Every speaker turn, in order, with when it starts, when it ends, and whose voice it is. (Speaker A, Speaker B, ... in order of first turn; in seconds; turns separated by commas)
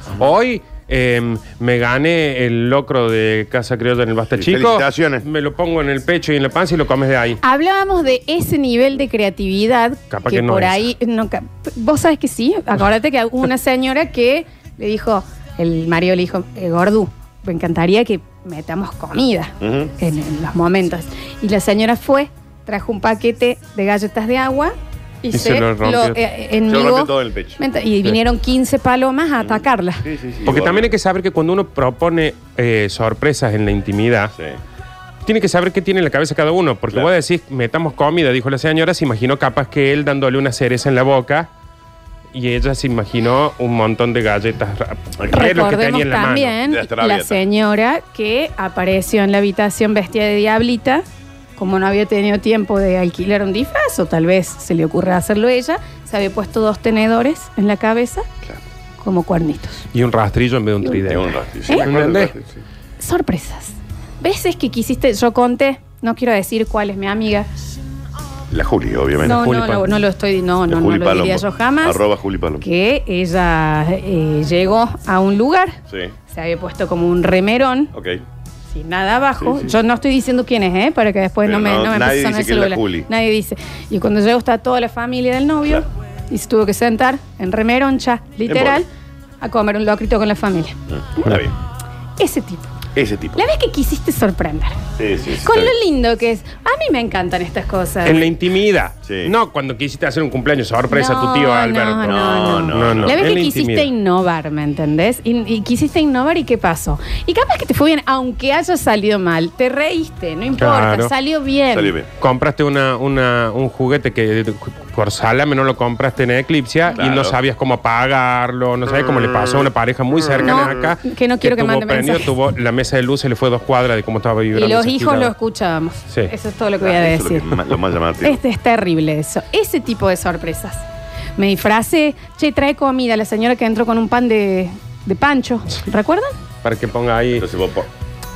Speaker A: 0.2-7.4, Speaker B: 4.4-5.2, Speaker C: 7.4-30.0, Speaker A: 10.1-10.9, Speaker B: 19.6-19.9, Speaker A: 25.3-26.2, Speaker B: 26.7-27.6, Speaker B: 29.4-30.9, Speaker A: 30.5-34.3, Speaker A: 35.2-41.5, Speaker A: 42.3-46.6, Speaker C: 45.3-51.0, Speaker B: 46.6-47.5, Speaker C: 51.6-58.3, Speaker C: 59.0-59.9, Speaker A: 59.9-62.3, Speaker B: 61.1-62.6, Speaker C: 63.0-67.5, Speaker B: 68.5-69.4, Speaker C: 69.2-72.0, Speaker A: 69.2-70.0, Speaker B: 70.7-72.6, Speaker C: 72.6-75.8, Speaker B: 75.9-76.1, Speaker C: 76.3-77.9, Speaker B: 77.9-78.2, Speaker C: 78.7-88.9, Speaker B: 79.4-79.8, Speaker B: 81.5-83.1, Speaker B: 88.5-88.8, Speaker C: 89.4-91.4, Speaker B: 90.9-91.5, Speaker C: 92.2-92.7, Speaker B: 93.0-93.4, Speaker C: 93.3-94.8, Speaker B: 95.0-95.8, Speaker C: 95.4-98.3, Speaker A: 98.0-103.9, Speaker B: 99.0-99.3, Speaker C: 100.9-112.0, Speaker B: 102.1-103.4, Speaker A: 110.6-111.1, Speaker B: 111.7-112.1, Speaker A: 112.2-125.3, Speaker B: 117.0-117.4, Speaker C: 120.4-122.3, Speaker C: 124.5-127.5, Speaker B: 126.8-128.4, Speaker C: 128.2-130.8, Speaker C: 131.4-136.3, Speaker A: 136.6-137.5, Speaker B: 137.4-137.9